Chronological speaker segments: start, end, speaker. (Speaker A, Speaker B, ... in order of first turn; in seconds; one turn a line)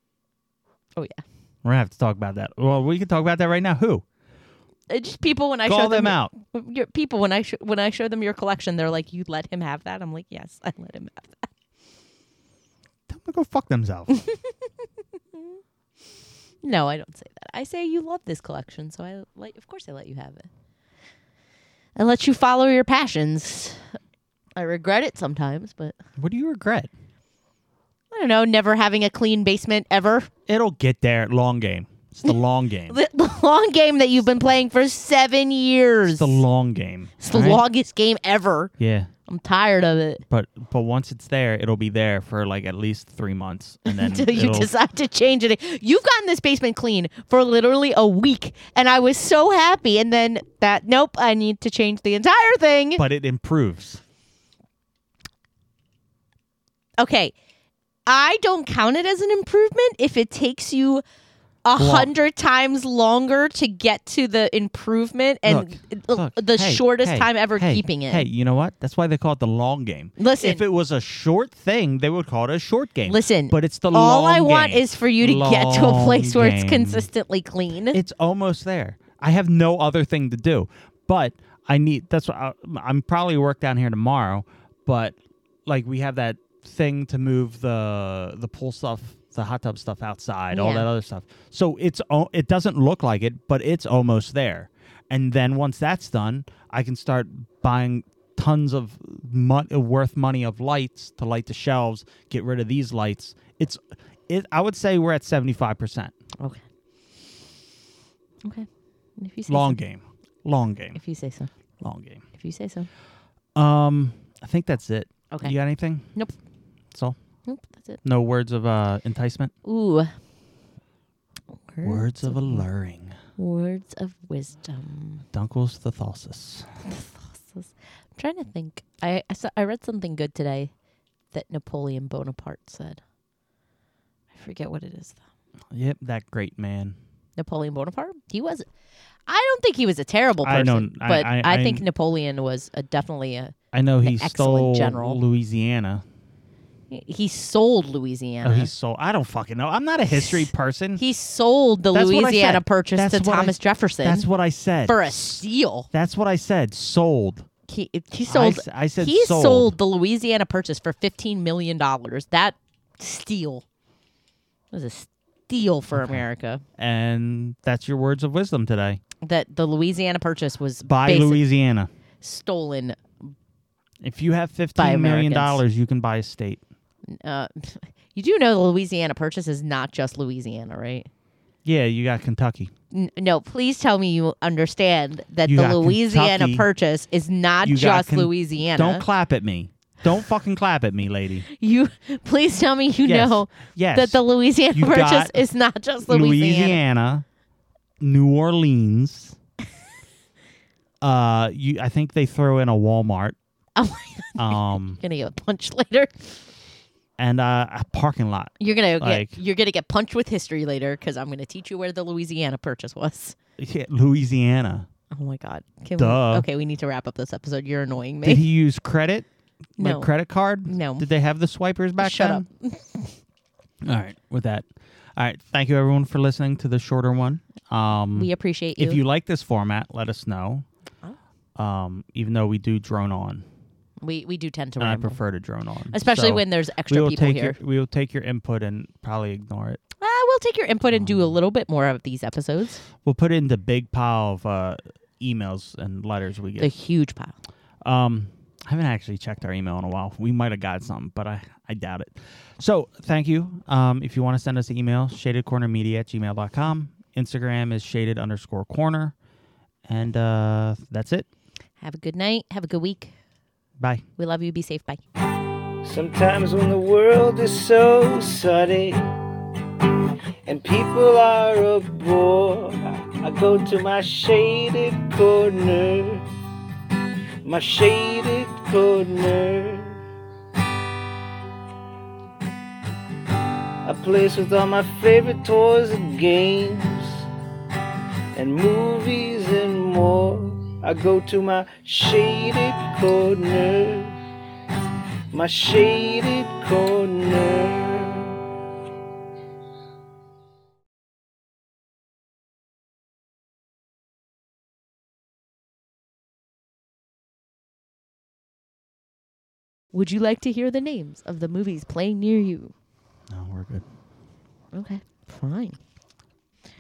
Speaker A: 1.0-1.2
Speaker B: 1.6-4.0
Speaker A: 4.9-11.5
Speaker B: 5.7-6.3
Speaker B: 13.1-14.2
Speaker A: 14.1-14.5
Speaker A: 16.6-20.5
Speaker A: 22.0-23.8
Speaker A: 24.6-26.0
Speaker B: 26.2-26.9
Speaker A: 28.1-30.3
Speaker B: 30.5-33.0
Speaker A: 32.9-36.4
Speaker B: 36.1-37.6
Speaker A: 37.2-38.7
Speaker B: 38.8-39.1
Speaker A: 39.3-40.2
Speaker B: 40.3-44.7
Speaker A: 43.9-53.0
Speaker B: 53.0-54.0
Speaker A: 57.0-57.3
Speaker A: 58.1-61.0
Speaker A: 61.6-68.3
Speaker B: 61.8-62.1
Speaker B: 65.5-77.1
Speaker A: 70.2-70.6
Speaker A: 73.1-78.0
Speaker B: 77.9-106.1
Speaker A: 90.5-90.9
Speaker A: 108.4-109.8
Speaker B: 109.5-111.0
Speaker A: 111.0-111.5
Speaker B: 111.8-112.2
Speaker A: 112.3-112.9
Speaker B: 113.5-116.1
Speaker A: 115.3-115.6
Speaker A: 117.5-118.0
Speaker B: 118.0-119.5
Speaker A: 119.7-120.2
Speaker A: 121.7-122.7
Speaker B: 121.8-123.2
Speaker A: 123.4-125.2
Speaker B: 125.3-126.7
Speaker A: 126.8-130.7
Speaker A: 131.3-133.0
Speaker A: 134.3-135.2
Speaker B: 135.7-137.0
Speaker A: 137.4-138.7
Speaker A: 139.3-145.2
Speaker B: 140.4-141.9
Speaker B: 143.7-146.1
Speaker A: 146.9-148.7
Speaker B: 148.4-151.0
Speaker A: 150.2-154.3
Speaker B: 151.9-157.5
Speaker A: 154.9-155.9
Speaker A: 157.7-163.6
Speaker B: 158.3-159.8
Speaker A: 164.7-166.6
Speaker B: 166.8-169.0
Speaker A: 169.2-171.4
Speaker B: 170.9-171.9
Speaker A: 172.2-173.3
Speaker B: 174.0-176.6
Speaker A: 174.8-175.6
Speaker A: 177.1-181.1
Speaker B: 181.7-182.7
Speaker A: 182.9-189.1
Speaker B: 185.5-186.7
Speaker B: 187.6-191.5
Speaker A: 191.5-196.8
Speaker B: 193.1-195.4
Speaker B: 196.1-197.2
Speaker B: 198.0-199.4
Speaker B: 201.0-203.4
Speaker A: 203.8-206.3
Speaker B: 204.4-205.0
Speaker B: 207.2-209.4
Speaker A: 208.6-213.3
Speaker B: 213.6-214.9
Speaker A: 215.1-218.5
Speaker B: 216.0-216.5
Speaker B: 218.2-219.3
Speaker A: 219.8-220.1
Speaker B: 219.8-222.5
Speaker A: 220.7-221.1
Speaker A: 222.0-223.2
Speaker B: 223.8-230.7
Speaker A: 228.2-229.0
Speaker B: 231.6-233.4
Speaker A: 234.0-235.2
Speaker B: 234.8-239.8
Speaker A: 235.9-237.6
Speaker A: 240.0-242.8
Speaker B: 240.9-241.4
Speaker B: 243.0-246.7
Speaker A: 246.6-247.4
Speaker B: 247.8-259.1
Speaker B: 259.9-261.3
Speaker A: 261.8-263.1
Speaker A: 264.2-265.0
Speaker C: 265.8-269.0
Speaker C: 270.5-276.2
Speaker C: 277.4-280.0
Speaker C: 283.9-287.3
Speaker C: 288.4-294.1
Speaker C: 295.3-298.4
Speaker A: 309.9-312.7
Speaker B: 313.3-313.9
Speaker A: 314.7-315.8